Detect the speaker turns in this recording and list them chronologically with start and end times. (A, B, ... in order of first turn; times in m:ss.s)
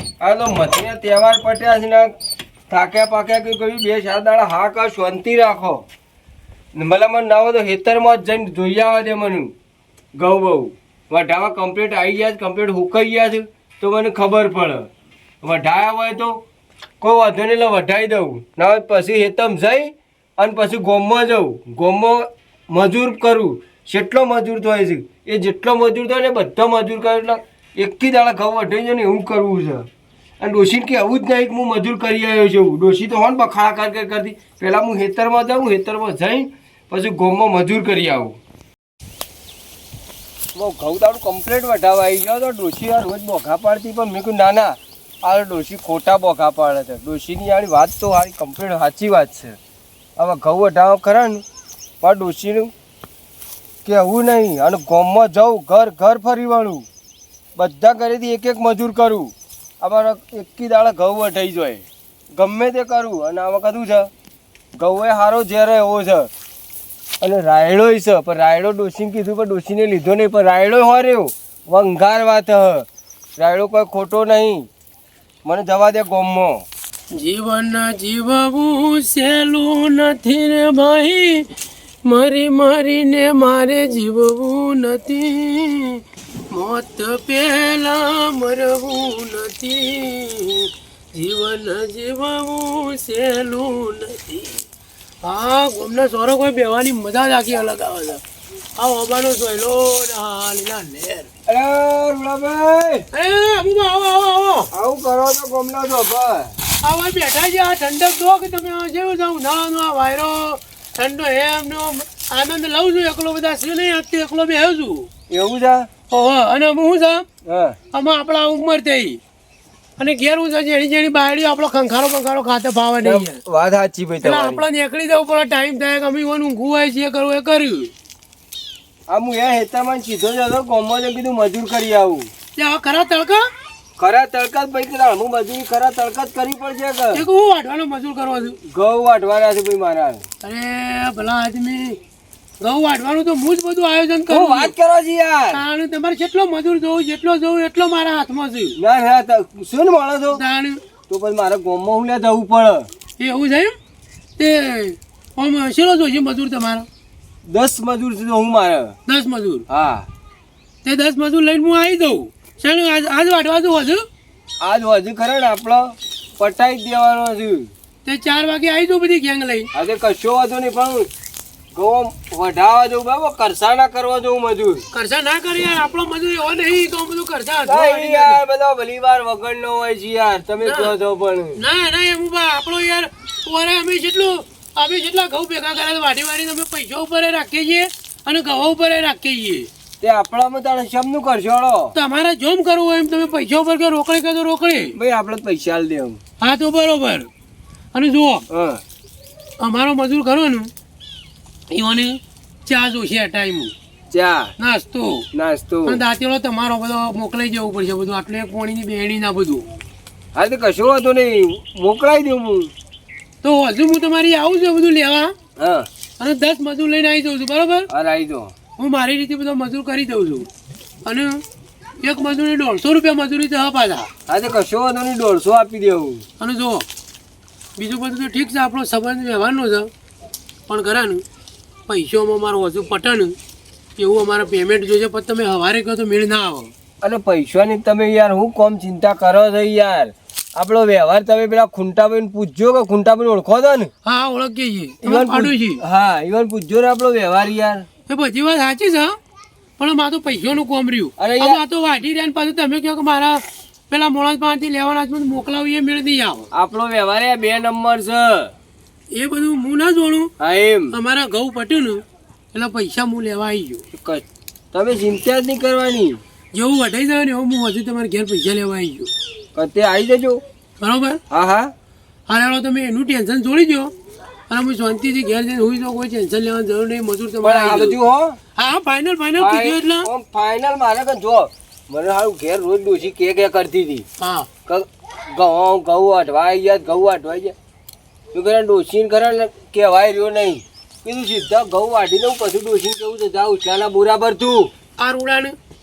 0:00.2-0:02.1 A
0:02.7-0:05.8 A
0:06.7-0:09.5 A
0:10.2-0:14.9 A
0:15.4-0:16.4 A
0:17.0-0:29.9 A
0:30.4-0:38.4 A
0:40.5-0:49.6 A
0:50.2-0:51.4 A
0:52.0-0:52.7 A
0:53.8-0:56.8 A
0:57.6-1:04.1 A
1:04.7-1:06.3 A
1:07.2-1:14.7 A
1:15.4-1:16.6 A
1:17.1-1:21.4 B
1:22.0-1:34.6 B
1:35.2-1:38.2 B
1:38.8-1:41.3 B
1:41.5-1:43.0 A
1:43.1-1:44.7 B
1:44.7-1:46.5 A
1:46.8-1:55.1 B
1:55.3-1:55.9 A
1:56.1-1:57.2 B
1:57.4-1:57.8 A
1:57.9-1:59.2 B
2:00.0-2:03.4 B
2:03.0-2:04.6 A
2:04.2-2:07.9 B
2:09.1-2:12.3 A
2:12.6-2:13.4 B
2:14.0-2:17.2 A
2:17.1-2:18.6 B
2:18.7-2:20.2 A
2:20.4-2:22.0 B
2:22.6-2:24.7 B
2:24.3-2:25.6 A
2:25.5-2:28.8 B
2:28.8-2:30.4 A
2:30.3-2:30.8 B
2:31.1-2:32.9 A
2:33.2-2:33.7 B
2:34.4-2:36.9 B
2:37.4-2:39.0 A
2:39.0-2:39.6 B
2:39.7-2:40.1 A
2:40.8-2:44.0 B
2:44.6-2:47.7 A
2:48.0-2:49.7 B
2:49.7-2:51.1 A
2:51.7-2:54.8 A
2:54.9-2:58.4 B
2:57.7-3:01.6 A
3:00.6-3:00.9 B
3:01.6-3:09.7 B
3:10.0-3:11.9 A
3:11.9-3:15.0 B
3:14.9-3:16.2 A
3:16.4-3:17.3 B
3:17.9-3:18.4 B
3:18.5-3:18.8 A
3:19.6-3:20.7 B
3:21.7-3:23.7 B
3:24.1-3:24.5 A
3:24.6-3:25.2 B
3:25.3-3:26.0 A
3:25.8-3:29.6 B
3:30.3-3:32.7 A
3:33.4-3:35.3 B
3:35.6-3:35.9 A
3:36.2-3:37.9 B
3:37.9-3:38.5 A
3:38.8-3:40.5 B
3:41.0-3:41.4 B
3:42.0-3:44.1 B
3:44.3-3:46.2 A
3:46.4-3:46.8 B
3:47.8-3:49.9 B
3:50.7-3:51.2 B
3:51.9-3:53.3 B
3:54.0-3:56.7 B
3:57.0-4:03.9 A
4:04.0-4:05.8 B
4:05.0-4:07.8 A
4:08.1-4:09.2 B
4:09.8-4:16.5 B
4:11.2-4:11.6 A
4:16.5-4:18.5 A
4:19.1-4:20.3 B
4:20.4-4:20.9 A
4:20.9-4:23.8 B
4:23.9-4:26.2 A
4:26.5-4:29.1 B
4:29.5-4:30.4 A
4:30.8-4:31.2 B
4:31.3-4:31.7 A
4:32.3-4:33.9 B
4:34.5-4:38.0 B
4:37.4-4:38.4 A
4:38.6-4:40.1 B
4:39.4-4:44.0 A
4:44.2-4:44.5 B
4:44.7-4:47.5 A
4:48.3-4:54.7 A
4:55.0-4:55.6 B